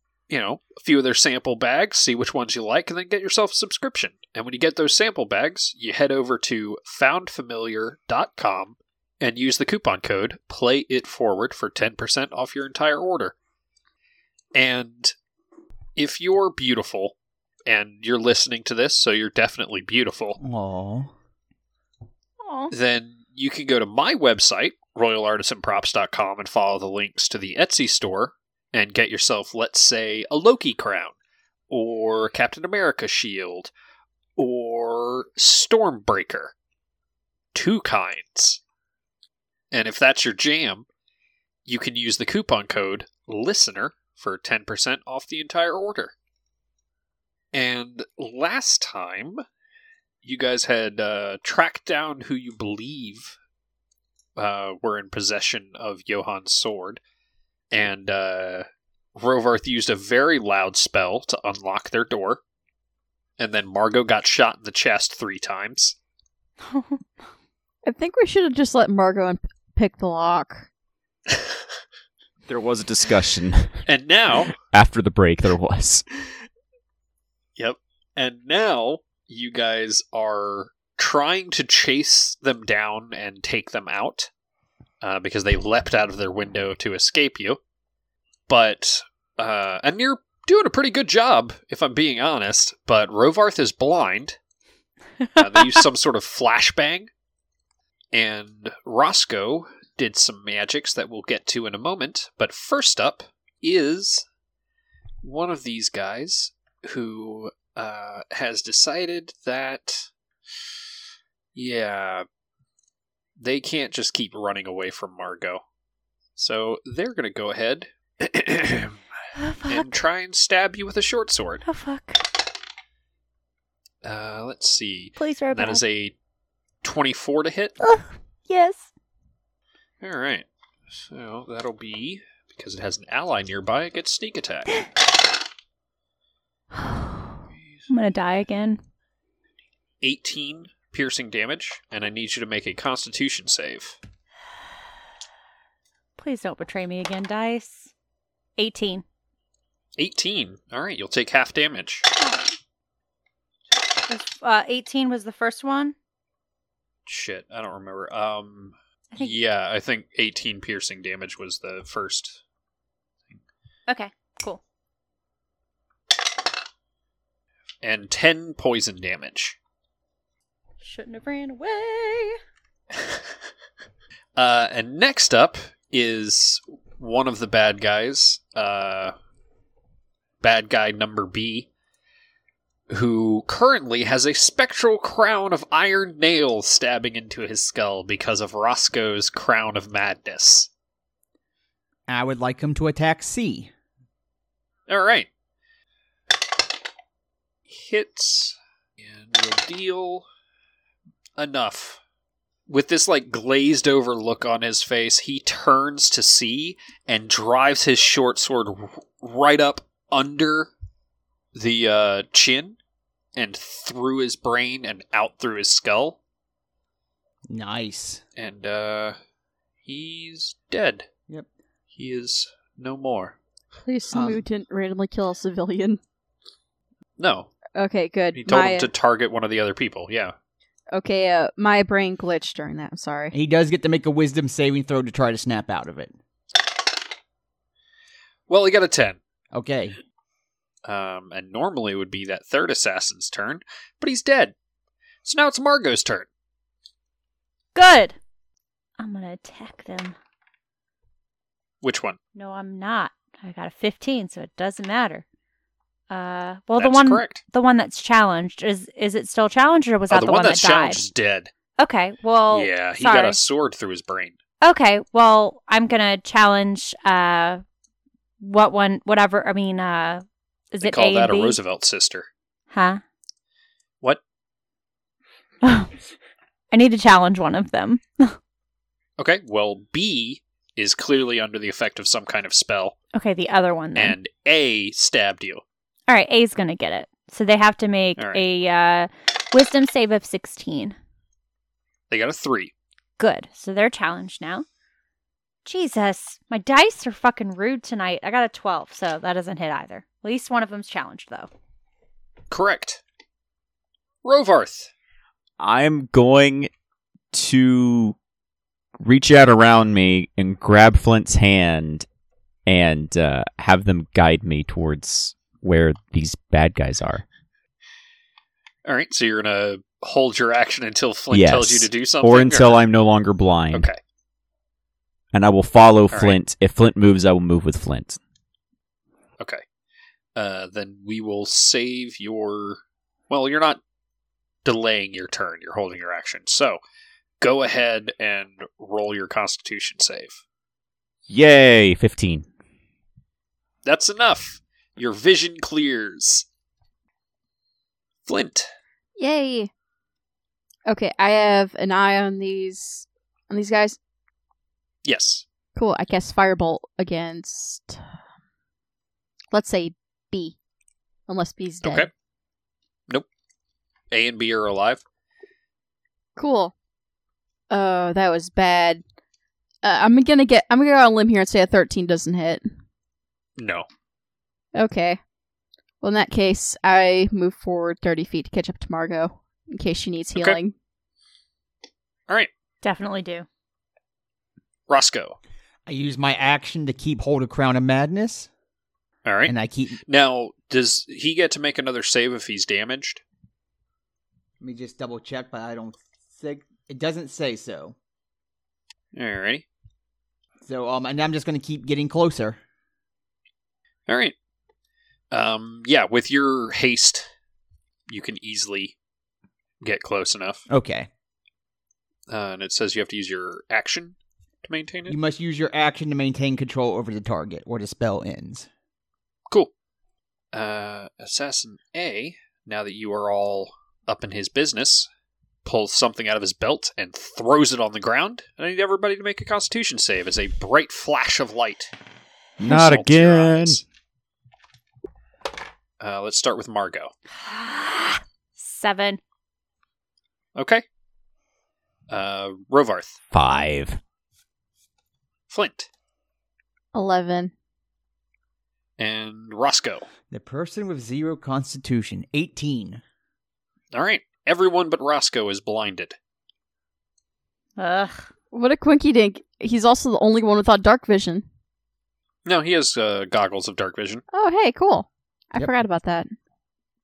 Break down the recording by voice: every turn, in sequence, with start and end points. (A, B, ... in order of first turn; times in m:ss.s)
0:00.3-0:13.3 A
0:14.5-0:15.1 A
0:16.0-0:17.1 A
0:17.7-0:20.4 A
0:20.4-0:21.1 B
0:22.4-0:22.7 C
0:22.7-0:31.1 A
0:31.7-0:33.7 A
0:34.4-0:36.5 A
0:37.5-0:38.6 A
0:39.7-0:40.8 A
0:41.6-0:46.1 A
0:47.5-0:49.4 A
0:50.2-0:53.4 A
0:54.4-0:57.0 A
0:57.7-0:58.6 A
0:59.2-1:02.4 A
1:03.4-1:06.0 A
1:06.6-1:07.0 C
1:07.8-1:10.7 D
1:12.5-1:13.7 E
1:13.9-1:14.5 A
1:14.5-1:16.0 E
1:17.6-1:24.3 A
1:25.0-1:27.6 A
1:28.5-1:34.4 A
1:35.2-1:35.8 C
1:35.4-1:37.1 A
1:38.1-1:44.2 A
1:45.2-1:50.1 A
1:51.5-1:52.2 A
1:53.4-1:55.6 A
1:56.4-1:59.0 A
1:59.4-1:59.9 C
1:59.7-2:01.6 A
2:01.6-2:02.2 C
2:04.0-2:06.1 A
2:05.2-2:05.8 C
2:06.8-2:07.7 A
2:07.8-2:08.9 C
2:10.0-2:14.8 A
2:16.8-2:17.3 C
2:17.5-2:17.8 A
2:17.9-2:18.8 C
2:20.0-2:24.0 A
2:26.2-2:27.9 C
2:28.6-2:29.0 C
2:30.0-2:32.0 A
2:32.2-2:32.5 C
2:34.1-2:35.9 C
2:37.0-2:42.4 A
2:43.9-2:44.6 C
2:47.8-2:49.6 A
2:50.8-2:52.4 C
2:54.4-2:59.1 A
3:00.4-3:01.7 A
3:02.9-3:10.7 A
3:12.1-3:13.7 B
3:14.9-3:15.3 A
3:17.7-3:20.2 A
3:21.4-3:22.0 A
3:22.7-3:30.7 A
3:31.5-3:32.8 A
3:33.4-3:36.2 A
3:37.5-3:38.2 B
3:38.4-3:39.2 A
3:39.8-3:41.1 A
3:41.9-3:43.4 A
3:43.8-3:46.0 D
3:44.1-3:44.4 B
3:47.2-3:47.5 A
3:47.7-3:48.9 D
3:48.3-3:50.3 A
3:50.9-3:53.3 D
3:53.3-3:56.2 B
3:58.5-3:59.2 A
3:59.5-4:00.0 B
4:00.8-4:04.5 A
4:05.2-4:06.3 A
4:07.7-4:08.2 C
4:09.0-4:10.2 C
4:11.8-4:12.2 A
4:12.3-4:15.2 C
4:16.1-4:21.0 C
4:16.8-4:17.4 A
4:20.1-4:21.5 A
4:21.8-4:23.4 C
4:22.5-4:24.3 A
4:24.6-4:27.6 C
4:28.4-4:31.6 C
4:30.8-4:32.3 A
4:32.7-4:33.0 C
4:35.6-4:35.9 C
4:36.7-4:38.4 C
4:39.2-4:42.9 A
4:43.1-4:44.2 C
4:44.0-4:45.6 A
4:46.1-4:51.0 C
4:52.1-4:52.7 A
4:53.2-4:54.6 C
4:55.6-5:01.5 C
5:02.5-5:03.0 A
5:04.2-5:04.9 A
5:05.6-5:06.7 E
5:07.3-5:08.2 E
5:09.0-5:12.0 E
5:12.7-5:17.2 E
5:18.8-5:22.8 A
5:21.3-5:23.9 E
5:23.7-5:24.0 A
5:25.3-5:28.2 E
5:26.1-5:26.4 A
5:30.4-5:33.8 A
5:34.6-5:36.8 A
5:37.4-5:40.4 A
5:41.3-5:42.5 E
5:43.8-5:46.4 A
5:48.3-5:48.7 A
5:49.2-5:49.7 D
5:50.9-5:54.0 D
5:55.0-5:55.4 A
5:55.8-5:58.0 D
5:59.5-6:00.6 D
6:01.3-6:02.1 D
6:01.8-6:02.1 A
6:04.1-6:05.0 A
6:06.4-6:06.7 D
6:07.7-6:09.0 D
6:09.8-6:12.6 D
6:13.6-6:13.8 A
6:14.7-6:15.2 D
6:16.0-6:20.7 D
6:22.8-6:23.4 C
6:24.9-6:25.4 A
6:25.8-6:28.5 B
6:29.2-6:29.5 A
6:29.5-6:30.0 B
6:30.1-6:33.2 A
6:34.6-6:37.9 B
6:39.1-6:39.6 A
6:40.6-6:42.6 B
6:44.1-6:44.3 A
6:45.3-6:47.3 A
6:48.1-6:48.9 A
6:49.8-6:50.6 A
6:50.7-6:51.1 B
6:52.3-6:55.2 A
6:55.1-6:58.7 B
7:00.5-7:05.1 A
7:05.6-7:11.9 A
7:12.6-7:13.8 E
7:12.6-7:13.8 A
7:16.0-7:17.1 A
7:17.4-7:19.2 C
7:20.6-7:20.8 A
7:22.1-7:23.2 A
7:23.3-7:24.0 E
7:25.5-7:25.9 A
7:26.9-7:27.5 D
7:29.0-7:30.1 A
7:30.3-7:33.0 B
7:33.9-7:36.2 A
7:37.8-7:38.3 C
7:38.5-7:41.4 D
7:42.4-7:44.2 A
7:44.3-7:46.3 D